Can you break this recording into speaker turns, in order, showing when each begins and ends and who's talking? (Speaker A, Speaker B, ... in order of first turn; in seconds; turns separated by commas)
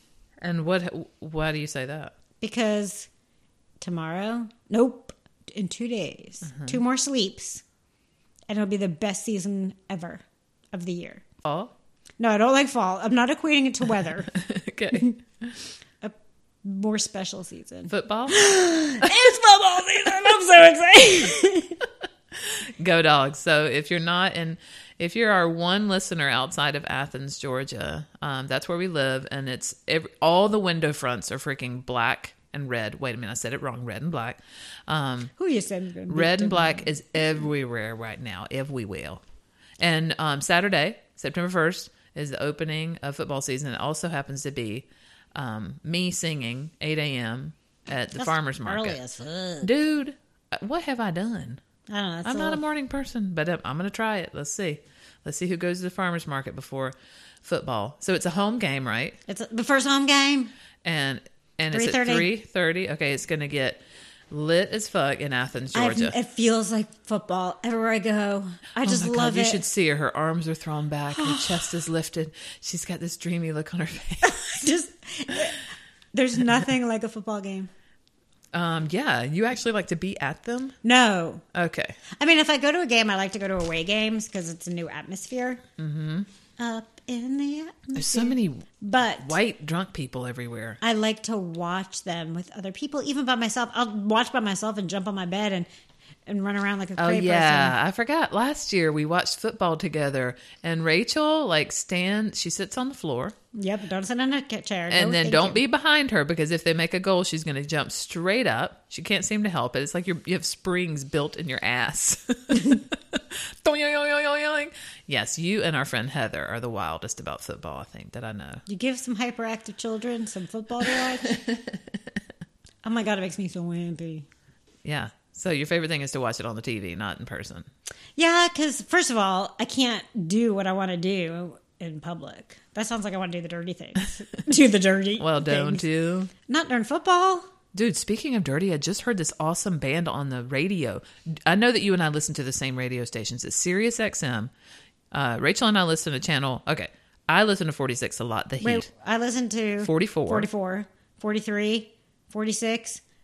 Speaker A: 0.4-2.1, Speaker B: 2.4-3.1, Speaker B: 3.8-7.6, Speaker A: 6.5-6.8, Speaker B: 8.5-11.2, Speaker A: 11.4-11.7, Speaker B: 12.2-14.3, Speaker A: 14.3-15.6, Speaker B: 16.0-21.8, Speaker A: 17.9-18.4, Speaker A: 22.4-35.3, Speaker B: 35.4-36.9, Speaker A: 36.1-39.2, Speaker A: 39.8-49.0, Speaker B: 48.2-49.7, Speaker A: 49.6-51.6, Speaker B: 51.9-52.6, Speaker A: 52.2-59.2, Speaker B: 59.3-60.5, Speaker A: 60.8-66.1, Speaker B: 61.7-62.3, Speaker B: 65.7-69.6, Speaker A: 68.8-74.5, Speaker B: 71.1-71.7, Speaker B: 74.2-77.7, Speaker A: 78.5-80.8, Speaker B: 80.8-81.4, Speaker A: 81.5-82.0, Speaker B: 82.2-85.6, Speaker A: 85.8-86.3, Speaker B: 86.6-89.3, Speaker A: 87.9-90.8, Speaker B: 90.8-95.7, Speaker B: 96.2-97.8, Speaker A: 97.0-103.3, Speaker B: 103.5-105.6, Speaker A: 104.9-118.6, Speaker B: 118.7-121.4, Speaker A: 121.3-121.8, Speaker B: 122.8-124.2, Speaker A: 124.8-127.7, Speaker B: 128.2-135.8, Speaker A: 135.2-136.3, Speaker B: 136.5-137.5, Speaker A: 137.7-144.5, Speaker A: 145.1-148.9, Speaker B: 148.6-153.0, Speaker A: 149.8-150.5